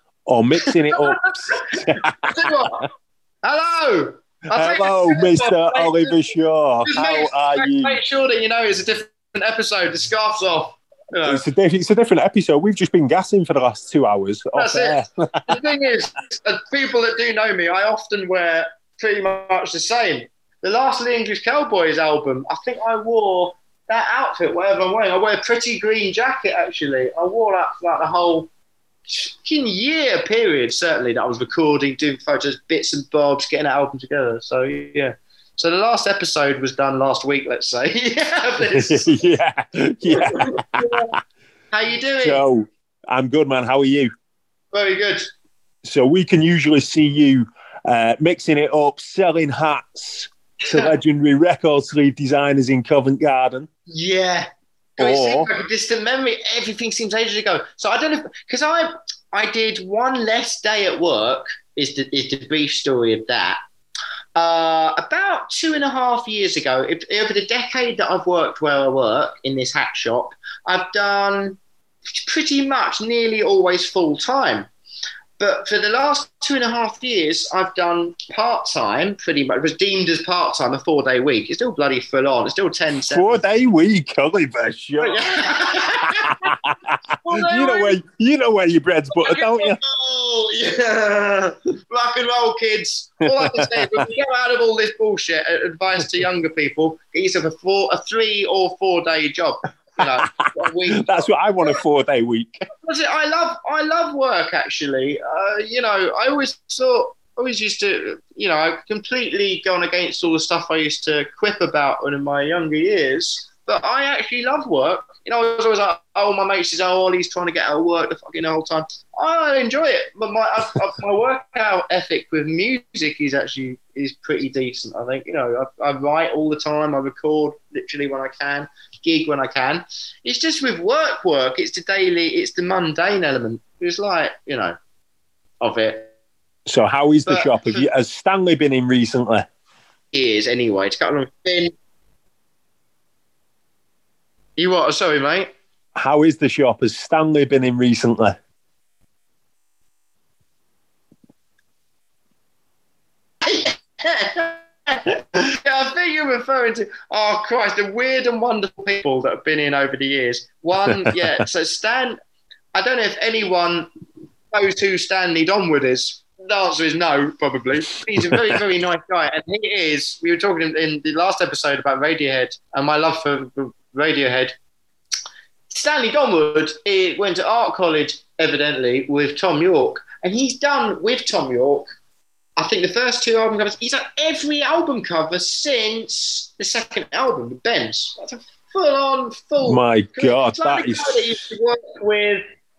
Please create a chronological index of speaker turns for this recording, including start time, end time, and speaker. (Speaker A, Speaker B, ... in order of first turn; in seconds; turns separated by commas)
Speaker A: 0.3-1.2, Speaker B: 0.7-2.9, Speaker A: 1.7-2.5, Speaker B: 3.4-6.2, Speaker A: 4.5-8.0, Speaker B: 6.9-11.5, Speaker A: 11.3-15.4, Speaker B: 14.5-28.5, Speaker B: 29.1-39.2, Speaker A: 38.8-40.9, Speaker B: 40.1-41.2, Speaker B: 41.7-42.4, Speaker A: 42.2-44.1, Speaker B: 44.7-45.3, Speaker A: 45.8-53.7, Speaker B: 50.7-50.9, Speaker B: 53.9-63.6, Speaker A: 55.0-55.5, Speaker B: 64.4-71.6, Speaker B: 72.2-74.7, Speaker B: 75.4-83.4, Speaker A: 83.1-85.3, Speaker B: 85.0-86.5, Speaker A: 86.2-89.8, Speaker B: 87.2-88.0, Speaker B: 89.1-101.8, Speaker A: 93.4-94.0, Speaker A: 101.0-102.7, Speaker B: 102.8-134.8, Speaker B: 135.6-136.1, Speaker A: 136.7-139.5, Speaker B: 137.3-137.9, Speaker B: 140.1-141.7, Speaker B: 144.6-145.5, Speaker A: 145.9-148.4, Speaker B: 153.4-162.2, Speaker B: 162.7-163.9, Speaker B: 164.5-174.5, Speaker B: 175.7-181.9, Speaker B: 182.6-192.4, Speaker A: 189.6-191.3